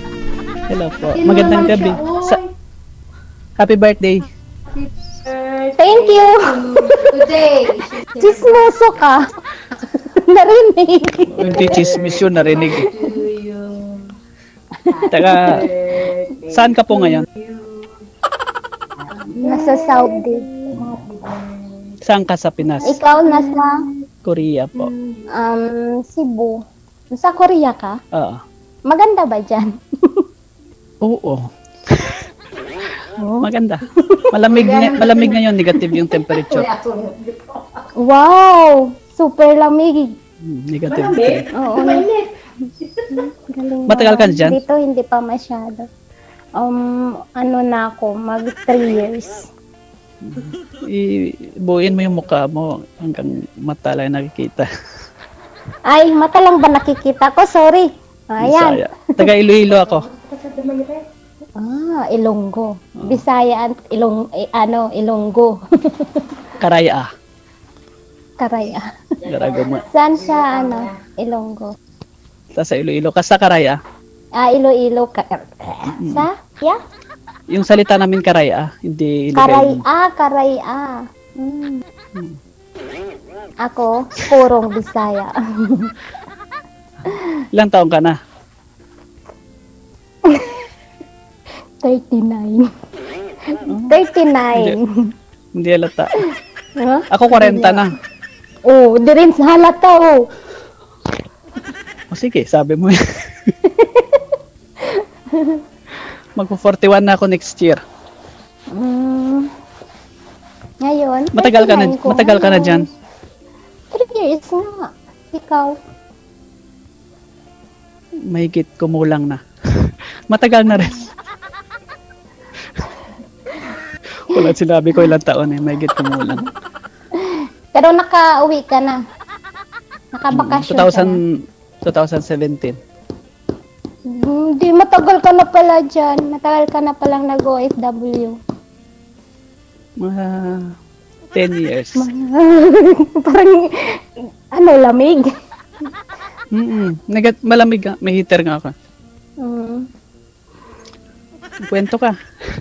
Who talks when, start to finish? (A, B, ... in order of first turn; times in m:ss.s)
0:00.7-0:02.4 A
0:01.3-0:02.0 B
0:03.6-0:04.2 A
0:05.3-0:05.7 B
0:05.8-0:07.4 C
0:07.1-0:08.3 B
0:08.1-0:09.2 C
0:09.8-0:11.8 C
0:11.3-0:12.9 A
0:13.2-0:13.7 B
0:15.0-0:15.3 C
0:15.1-0:15.6 A
0:16.3-0:16.5 B
0:16.5-0:17.3 A
0:19.4-0:20.4 C
0:20.5-0:21.4 B
0:22.1-0:22.9 A
0:22.8-0:23.7 C
0:24.2-0:24.9 A
0:25.3-0:26.6 C
0:27.1-0:28.0 C
0:28.9-0:30.2 C
0:31.0-0:32.3 A
0:33.4-0:36.7 A
0:34.0-0:34.3 C
0:36.7-0:37.2 B
0:38.0-0:40.1 C
0:40.4-0:41.5 A
0:41.5-0:42.1 C
0:43.1-0:45.9 C
0:43.9-0:44.6 A
0:47.4-0:49.4 C
0:50.2-0:54.7 A
0:55.9-0:58.8 C
0:58.4-1:00.1 A
1:00.6-1:01.0 B
1:01.6-1:06.5 C
1:06.6-1:07.1 A
1:08.4-1:08.8 C
1:09.3-1:09.8 A
1:09.8-1:11.7 C
1:12.6-1:13.8 A
1:14.4-1:16.8 C
1:17.5-1:19.8 A
1:19.4-1:21.8 C
1:23.6-1:25.9 C
1:27.1-1:27.4 C
1:27.5-1:28.2 A
1:30.3-1:30.6 C
1:31.8-1:32.7 C
1:33.5-1:34.8 C
1:33.7-1:33.9 A
1:35.6-1:36.2 A
1:36.8-1:37.8 C
1:37.1-1:37.9 A
1:38.7-1:40.2 C
1:42.1-1:43.5 A
1:43.6-1:44.3 C
1:44.8-1:45.6 C
1:46.4-1:47.8 A
1:48.7-1:49.5 C
1:50.8-1:52.8 C
1:51.4-1:52.9 A
1:53.9-1:55.8 C
1:58.3-2:01.0 A
2:04.2-2:06.4 A
2:07.2-2:09.0 C
2:10.1-2:11.2 C
2:10.3-2:11.2 A
2:11.8-2:12.8 A
2:14.1-2:18.4 C
2:20.0-2:20.7 A
2:21.3-2:22.0 A
2:22.0-2:25.3 C
2:26.5-2:28.7 A
2:29.4-2:29.9 C
2:31.7-2:32.2 A